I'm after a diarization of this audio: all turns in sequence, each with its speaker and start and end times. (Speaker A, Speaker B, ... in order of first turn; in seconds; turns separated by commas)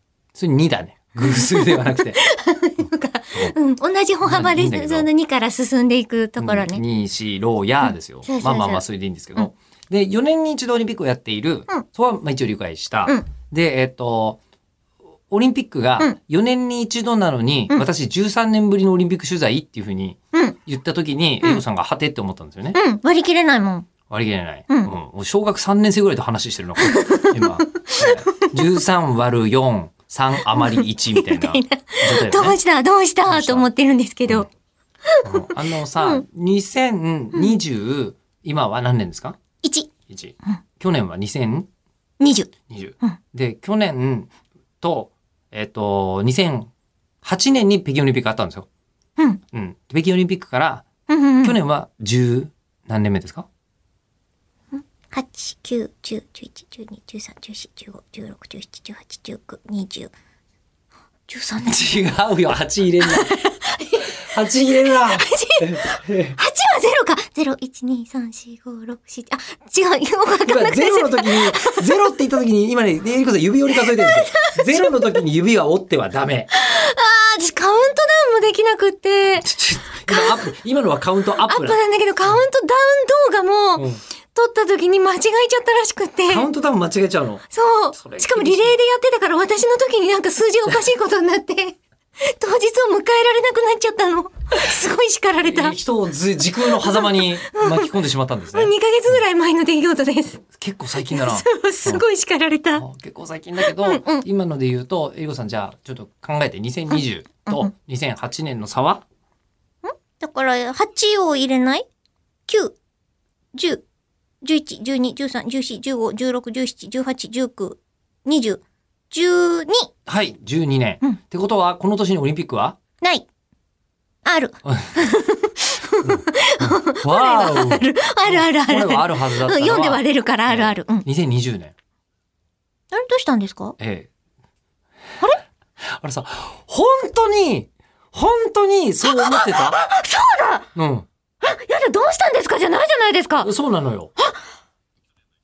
Speaker A: 0.3-2.2, Speaker B: 1.2-6.8, Speaker A: 4.2-5.1, Speaker A: 6.4-14.4, Speaker B: 8.2-8.8, Speaker A: 15.3-22.8, Speaker B: 22.7-23.9, Speaker A: 24.1-32.6, Speaker B: 26.8-28.6, Speaker B: 30.5-34.5, Speaker A: 33.3-33.7, Speaker B: 35.1-35.4, Speaker A: 35.2-39.4, Speaker B: 36.0-36.2, Speaker B: 37.3-37.6, Speaker B: 39.6-39.9, Speaker A: 40.1-41.7, Speaker B: 42.2-43.2, Speaker A: 42.7-46.7, Speaker A: 47.2-48.7, Speaker A: 49.5-50.9, Speaker B: 51.1-51.6, Speaker A: 51.4-53.5, Speaker B: 54.7-60.1, Speaker B: 61.3-61.9, Speaker A: 61.6-63.3, Speaker B: 63.0-72.1, Speaker A: 64.1-66.4, Speaker A: 70.4-76.5, Speaker B: 73.7-75.2, Speaker B: 76.5-79.5, Speaker A: 79.4-82.4, Speaker B: 80.1-80.5, Speaker B: 81.4-86.5, Speaker A: 83.8-84.0, Speaker A: 86.3-88.8, Speaker B: 87.5-95.8, Speaker A: 95.4-99.2, Speaker B: 96.5-98.0, Speaker B: 98.5-100.4, Speaker A: 100.5-102.0, Speaker B: 101.0-102.8, Speaker A: 102.8-109.0, Speaker B: 103.6-104.3, Speaker B: 106.9-107.7, Speaker B: 109.8-111.9, Speaker B: 112.5-112.8, Speaker B: 113.5-113.8, Speaker B: 114.4-119.9, Speaker A: 120.1-122.8, Speaker B: 123.0-123.3, Speaker B: 124.2-131.1, Speaker A: 124.7-125.0, Speaker A: 126.0-131.7, Speaker B: 132.9-133.8, Speaker A: 133.8-134.1, Speaker A: 135.9-139.8, Speaker B: 139.0-140.7, Speaker A: 140.8-141.1, Speaker B: 141.4-143.5, Speaker A: 143.4-144.1